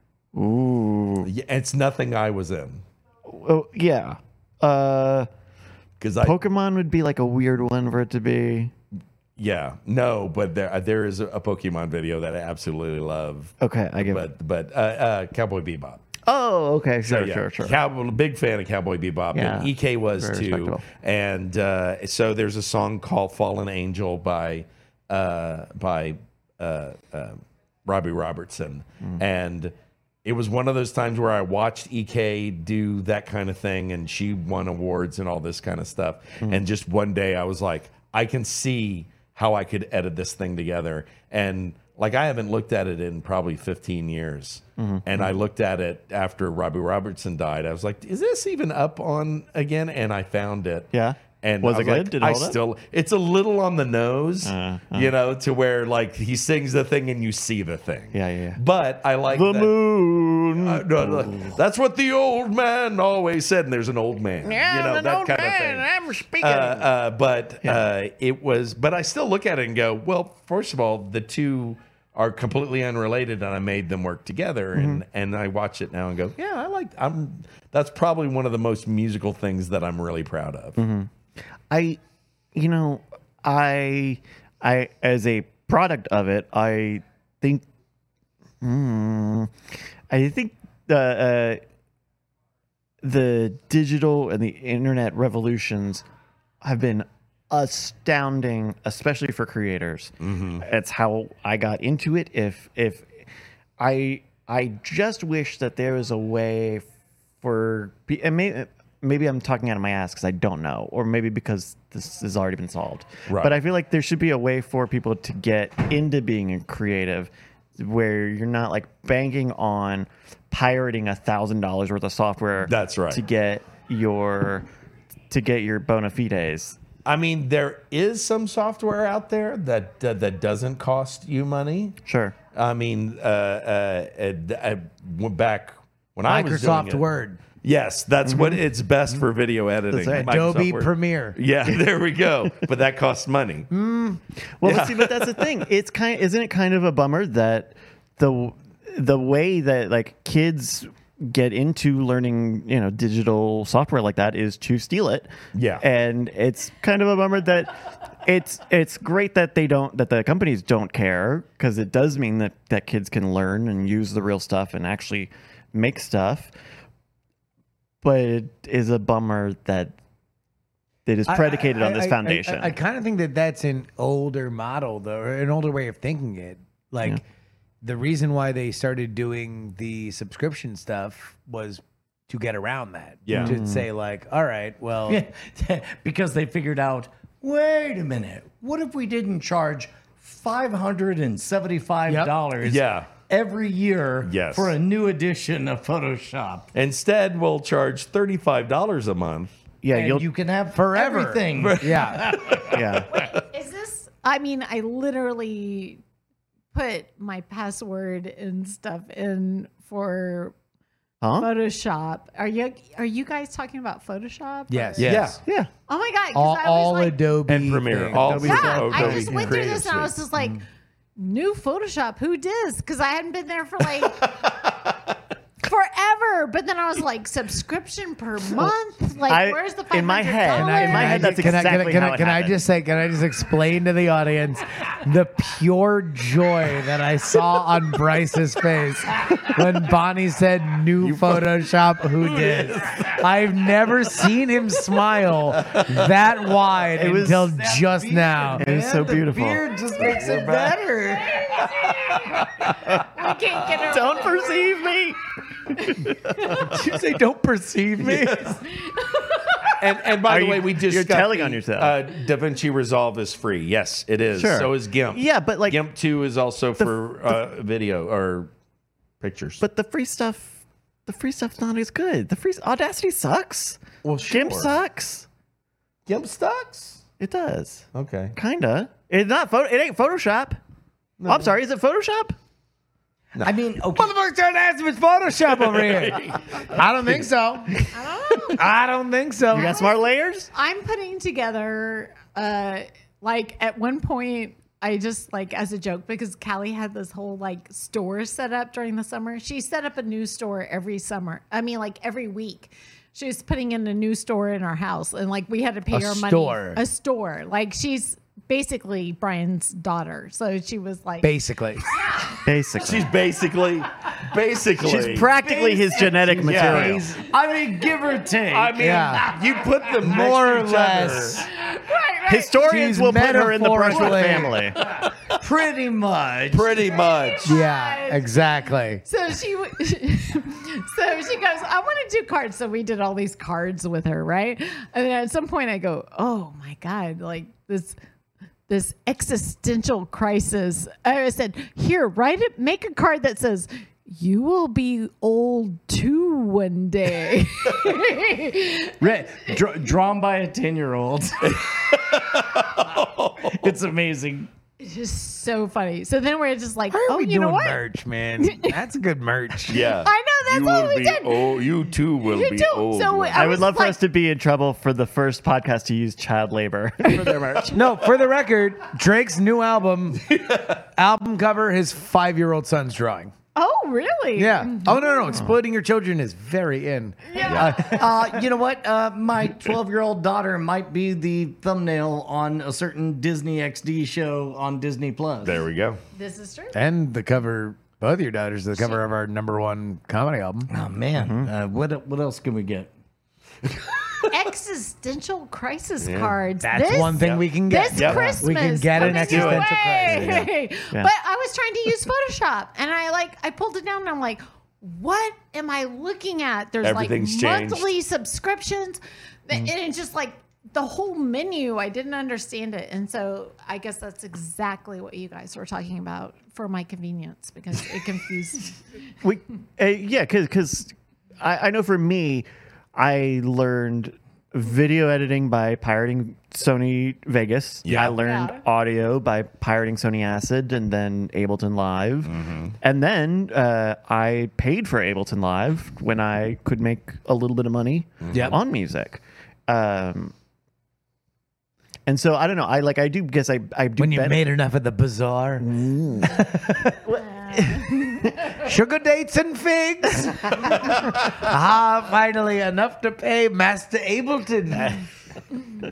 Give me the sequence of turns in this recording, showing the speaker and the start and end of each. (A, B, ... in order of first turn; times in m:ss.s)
0:00.3-0:01.3 A
0:01.2-0:02.8 B
0:03.2-0:05.3 A
0:06.0-0:06.4 B
0:06.2-0:08.7 A
0:09.4-0:16.0 B
0:13.6-0:14.3 A
0:16.2-0:17.8 A
0:17.0-0:59.8 B
0:19.3-0:20.8 A
0:44.8-0:45.3 A
0:50.9-0:52.6 A
0:54.4-0:55.1 A
0:58.1-0:58.6 A
0:59.3-1:01.6 A
1:00.5-1:05.9 B
1:04.4-1:06.9 A
1:06.4-1:20.8 B
1:14.7-1:15.0 A
1:20.8-1:21.1 A
1:21.7-1:22.0 A
1:22.5-1:27.6 A
1:28.6-1:29.5 A
1:30.1-1:31.6 A
1:33.0-1:36.0 A
1:36.6-1:43.2 A
1:40.2-1:40.6 B
1:43.8-1:46.9 A
1:47.4-2:04.7 A
1:53.3-1:53.6 B
2:02.6-2:03.2 B
2:05.3-2:06.8 A
2:07.0-2:12.0 B
2:12.0-2:12.4 A
2:12.5-2:17.0 B
2:16.2-2:17.4 C
2:17.6-2:23.7 B
2:18.2-2:18.6 A
2:19.9-2:20.3 A
2:20.1-2:21.4 C
2:23.7-2:46.5 A
2:24.6-2:25.6 B
2:35.5-2:35.8 B
2:48.0-2:50.0 A
2:51.0-2:52.8 A
2:51.3-2:57.2 C
2:57.8-3:05.2 C
3:03.2-3:03.6 B
3:03.3-3:03.9 A
3:05.1-3:16.6 D
3:12.1-3:12.3 C
3:12.6-3:13.1 B
3:14.2-3:14.7 B
3:16.7-3:19.5 B
3:19.8-3:20.3 A
3:19.9-3:22.7 D
3:20.7-3:22.2 C
3:21.6-3:23.3 B
3:22.6-3:23.2 A
3:23.1-3:26.0 E
3:26.7-3:30.5 E
3:31.2-3:31.5 A
3:31.4-3:35.2 E
3:34.7-3:35.4 C
3:35.0-3:35.4 B
3:35.4-3:35.7 A
3:35.9-3:37.2 E
3:36.3-3:39.3 C
3:37.5-3:40.2 B
3:38.3-3:40.6 E
3:38.9-3:39.5 A
3:41.2-3:44.3 E
3:44.1-3:45.1 B
3:45.6-3:51.7 E
3:49.2-3:52.6 A
3:50.5-4:09.0 C
4:01.0-4:01.4 B
4:02.2-4:03.2 B
4:05.6-4:06.1 B
4:06.9-4:07.6 A
4:07.6-4:11.5 D
4:08.5-4:09.6 A
4:10.0-4:10.8 B
4:11.4-4:12.1 E
4:11.5-4:13.0 B
4:12.9-4:14.8 E
4:13.7-4:16.4 A
4:16.4-4:18.6 C
4:18.0-4:18.6 B
4:18.7-4:19.7 E
4:19.7-4:28.5 B
4:20.2-4:22.0 A
4:24.3-4:25.8 A
4:26.8-4:27.4 A
4:29.2-4:29.6 B
4:29.6-4:35.3 A
4:34.0-4:34.7 B
4:36.0-4:37.0 B
4:37.2-4:40.6 A
4:37.9-4:38.3 B
4:41.2-4:41.5 B
4:41.2-4:42.3 A
4:43.4-4:44.1 D
4:43.9-4:47.9 C
4:45.8-4:46.4 B
4:47.9-4:48.7 E
4:48.4-4:49.8 C
4:49.5-4:50.5 A
4:49.5-4:50.0 E
4:50.5-5:11.3 E
5:05.9-5:06.8 C
5:11.2-5:11.8 C
5:11.9-5:12.4 E
5:12.4-5:13.1 A
5:12.8-5:15.3 B
5:14.8-5:17.1 A
5:16.0-5:19.3 D
5:16.4-5:17.0 B
5:18.5-5:21.5 B
5:18.8-5:19.2 C
5:20.0-5:21.4 C
5:21.5-5:22.6 E
5:22.2-5:24.8 A
5:22.6-5:24.6 C
5:25.4-5:26.7 D
5:26.5-5:27.6 B
5:26.9-5:38.0 E
5:27.4-5:29.0 C
5:38.7-5:49.1 E
5:49.0-5:51.4 D
5:51.4-5:53.8 B
5:53.6-5:54.5 D
5:54.8-5:57.8 E
5:56.9-5:59.8 C
5:58.4-5:58.8 E
5:59.7-6:03.4 B
5:59.7-6:01.6 E
6:02.2-6:04.0 E
6:03.3-6:07.8 A
6:07.7-6:10.3 C
6:10.3-6:10.8 B
6:10.9-6:13.3 C
6:13.5-6:15.4 E
6:14.3-6:18.0 C
6:17.3-6:17.9 E
6:17.4-6:17.8 B
6:17.9-6:25.6 D
6:25.4-6:26.0 B
6:26.1-6:26.8 E
6:26.7-6:30.7 C
6:28.8-6:29.0 E
6:30.7-6:32.9 D
6:31.1-6:31.5 A
6:34.3-6:58.8 E
6:36.0-6:36.4 B
6:36.6-6:40.5 C
6:37.2-6:38.4 B
6:39.0-6:39.7 B
6:46.8-6:47.9 B
6:59.2-7:20.3 A
7:07.8-7:08.2 B
7:08.2-7:08.6 E
7:12.3-7:12.7 B
7:18.2-7:18.5 B
7:18.3-7:18.6 C
7:22.0-7:24.4 A
7:24.0-7:25.7 C
7:25.6-7:26.4 A
7:26.3-7:27.0 C
7:27.0-7:28.2 A
7:27.4-7:28.0 E
7:28.5-7:35.0 C